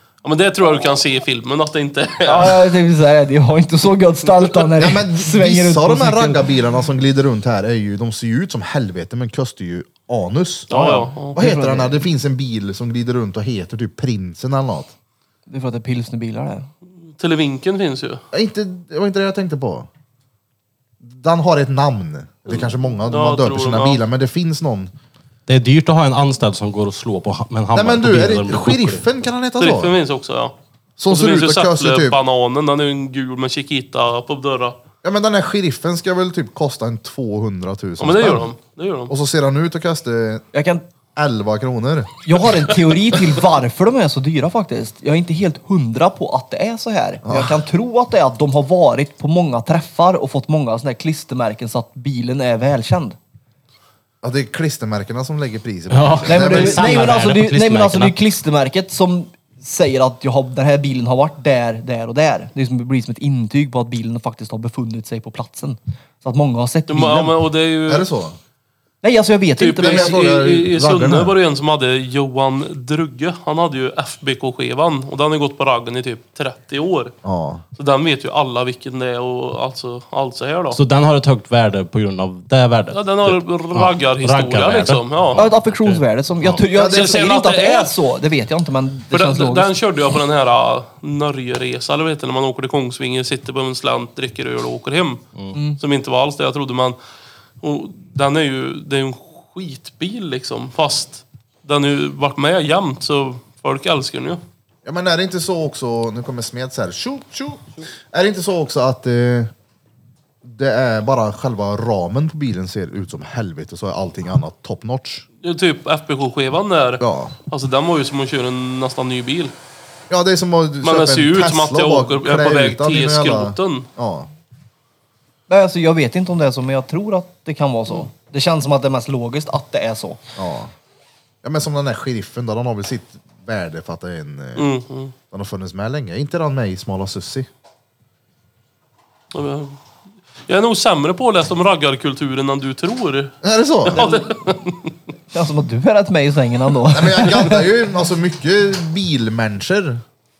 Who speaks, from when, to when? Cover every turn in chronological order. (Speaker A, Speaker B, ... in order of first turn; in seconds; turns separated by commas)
Speaker A: 0.2-2.6, Speaker B: 2.2-6.5, Speaker C: 4.8-14.9, Speaker A: 10.7-11.3, Speaker B: 11.3-12.0, Speaker B: 15.5-16.7, Speaker A: 17.2-18.2, Speaker C: 18.3-19.9, Speaker C: 21.0-24.9, Speaker A: 23.1-24.0, Speaker D: 25.5-29.0, Speaker C: 27.7-29.9, Speaker A: 29.6-30.5, Speaker C: 31.0-32.2, Speaker A: 31.1-34.8, Speaker C: 35.0-38.5, Speaker A: 38.0-39.1, Speaker C: 39.1-40.4, Speaker B: 40.5-40.8, Speaker C: 41.1-42.1, Speaker B: 42.2-53.2, Speaker C: 47.2-47.6, Speaker C: 54.2-57.1, Speaker D: 55.9-58.1, Speaker B: 56.3-67.3, Speaker A: 66.9-68.1, Speaker C: 67.9-68.4, Speaker B: 69.0-70.3, Speaker A: 69.6-77.1, Speaker C: 69.8-71.4, Speaker C: 77.2-77.6, Speaker A: 77.8-80.8, Speaker D: 80.7-86.6, Speaker A: 82.9-85.4, Speaker B: 85.4-89.7, Speaker C: 86.7-87.1, Speaker A: 86.7-87.9, Speaker A: 89.1-95.2, Speaker B: 95.5-95.8, Speaker A: 95.8-97.0, Speaker A: 97.6-104.4, Speaker C: 104.8-109.5, Speaker C: 110.4-115.2, Speaker A: 115.4-119.5, Speaker C: 117.0-117.3, Speaker C: 120.1-124.3, Speaker A: 120.8-123.9, Speaker B: 125.5-130.2, Speaker C: 130.3-130.7, Speaker C: 131.4-134.7, Speaker A: 134.6-135.1, Speaker C: 135.3-137.5, Speaker A: 139.3-139.8, Speaker A: 140.5-144.9, Speaker C: 143.4-144.2, Speaker B: 145.3-147.7, Speaker C: 146.9-150.0